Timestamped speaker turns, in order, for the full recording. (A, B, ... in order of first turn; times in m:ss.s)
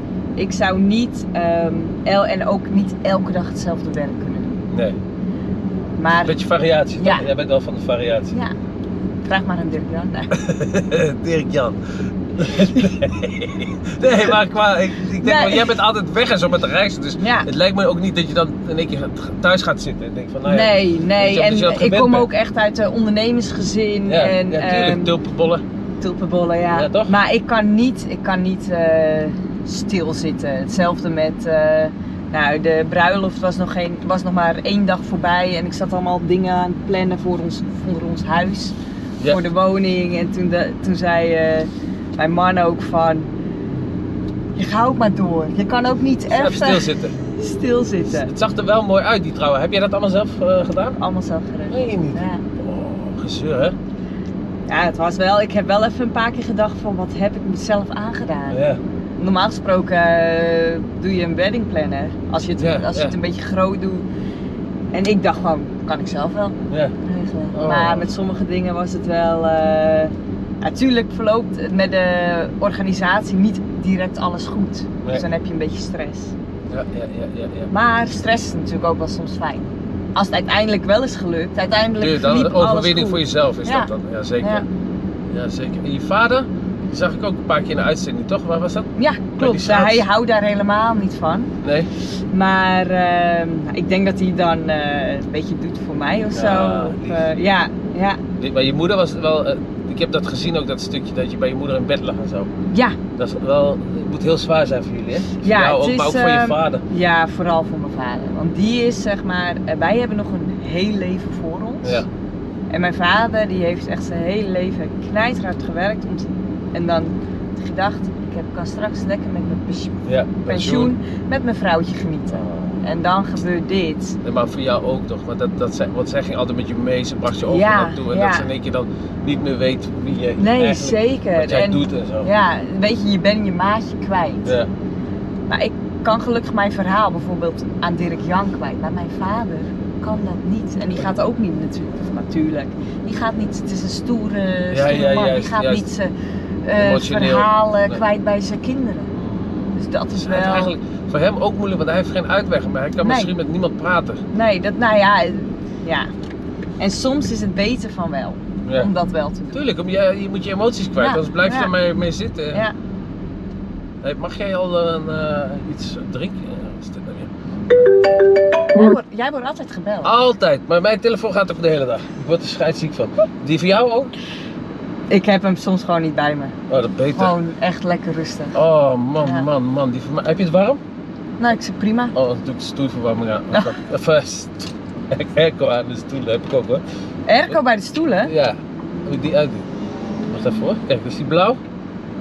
0:00.4-0:04.6 A
0:04.7-0:05.0 B
0:06.0-0:06.4 A
0:06.2-0:08.4 B
0:07.0-0:07.3 A
0:09.2-0:10.3 A
0:10.3-0:22.3 B
0:15.2-0:15.8 A
0:17.2-0:17.5 A
0:20.4-0:25.1 A
0:24.1-0:25.6 B
0:26.0-0:38.8 A
0:26.7-0:27.1 B
0:39.3-0:43.3 A
0:44.6-0:48.3 A
0:46.3-0:47.1 B
0:48.1-0:51.0 B
0:51.0-0:52.4 A
0:51.7-0:53.8 B
0:54.7-0:58.6 A
0:58.5-0:58.8 B
0:59.2-1:04.1 A
1:02.6-1:03.2 B
1:04.9-1:16.4 A
1:06.7-1:07.0 B
1:07.5-1:08.1 B
1:16.7-1:17.7 B
1:17.7-1:23.9 A
1:22.0-1:24.7 B
1:25.3-1:30.0 B
1:29.0-1:31.5 A
1:31.6-1:31.9 B
1:32.3-1:38.2 A
1:36.3-1:37.5 B
1:38.4-1:42.5 B
1:42.7-1:43.0 A
1:43.2-1:46.8 B
1:45.4-1:52.0 A
1:51.8-1:52.1 B
1:52.7-2:04.2 A
2:00.1-2:00.9 B
2:02.3-2:02.8 B
2:04.2-2:12.3 B
2:07.4-2:08.5 A
2:10.4-2:14.5 A
2:15.5-2:26.1 A
2:24.7-2:25.8 B
2:26.6-2:29.1 A
2:26.8-2:28.0 B
2:29.1-2:34.2 B
2:29.8-2:30.7 A
2:33.0-2:33.3 A
2:34.3-2:36.1 A
2:36.8-2:39.6 A
2:38.6-2:38.9 B
2:39.5-2:42.7 B
2:41.0-2:41.7 A
2:44.0-2:47.9 B
2:48.7-2:50.1 A
2:50.0-2:54.2 B
2:55.1-2:56.6 A
2:56.7-2:57.4 B
2:57.1-2:58.6 A
2:58.6-3:00.8 B
2:59.2-2:59.5 A
3:01.4-3:02.1 A
3:02.2-3:06.8 B
3:07.3-3:08.3 A
3:08.2-3:09.7 B
3:10.3-3:11.6 B